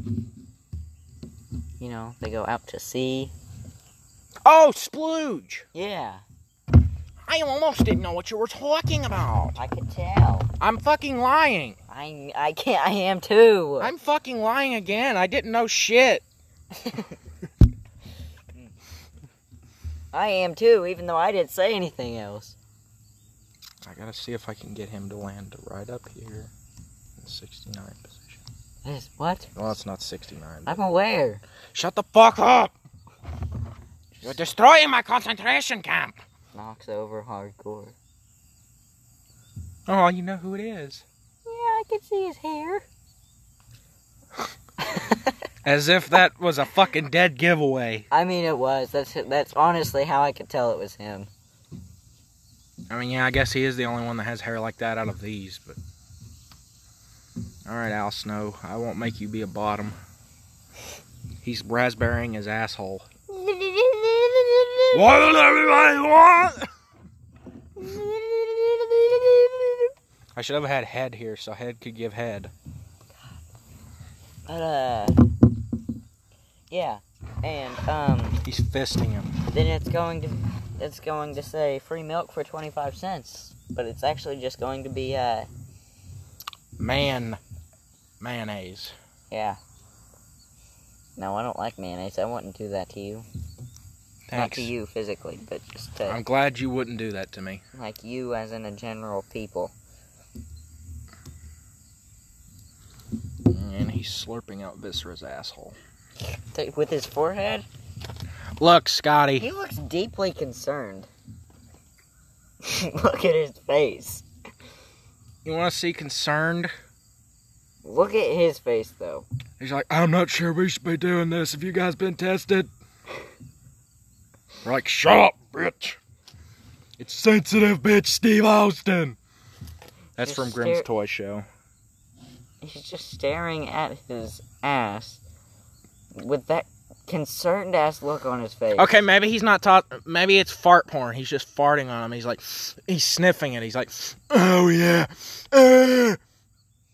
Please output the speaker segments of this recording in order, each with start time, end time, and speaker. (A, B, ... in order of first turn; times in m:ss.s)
0:01.8-0:03.3 A
0:04.4-0:05.7 B
0:05.7-0:06.2 A
0:07.3-0:09.6 B
0:09.6-0:10.5 A
0:10.6-0:11.8 B
0:11.9-0:13.9 A
0:13.8-0:16.2 B
0:16.8-0:17.2 A
0:20.1-0:22.6 A
0:23.8-0:26.5 B
0:27.2-0:28.4 B
0:28.8-0:29.5 A
0:29.6-0:30.8 B
0:30.7-0:31.4 A
0:31.7-0:32.7 B
0:34.2-0:36.2 B
0:36.5-0:38.0 A
0:39.9-0:41.0 B
0:41.4-0:42.8 A
0:44.8-0:45.3 A
0:45.6-0:48.1 B
0:48.1-0:51.3 A
0:52.9-0:55.8 B
0:57.7-1:00.0 B
1:01.4-1:03.1 B
1:03.3-1:05.0 A
1:04.9-1:06.7 B
1:07.8-1:09.9 A
1:10.4-1:12.5 B
1:14.5-1:15.2 A
1:16.7-1:18.4 A
1:18.4-1:19.3 B
1:19.5-1:25.5 A
1:26.8-1:27.4 B
1:28.2-1:29.0 B
1:29.3-1:29.6 A
1:31.2-1:33.3 A
1:34.3-1:34.7 B
1:34.4-1:36.2 A
1:36.1-1:37.6 B
1:37.7-1:39.7 A
1:43.5-1:45.8 B
1:46.4-1:47.7 A
1:48.6-1:49.5 B
1:49.4-1:51.1 A
1:52.6-1:54.2 A
1:55.4-1:56.7 B
1:57.8-1:59.3 A
1:59.6-2:02.7 B
2:04.6-2:06.0 B
2:07.0-2:09.2 B
2:10.2-2:11.5 B
2:10.2-2:10.9 A
2:12.6-2:15.2 A
2:16.1-2:19.0 A
2:18.8-2:26.2 B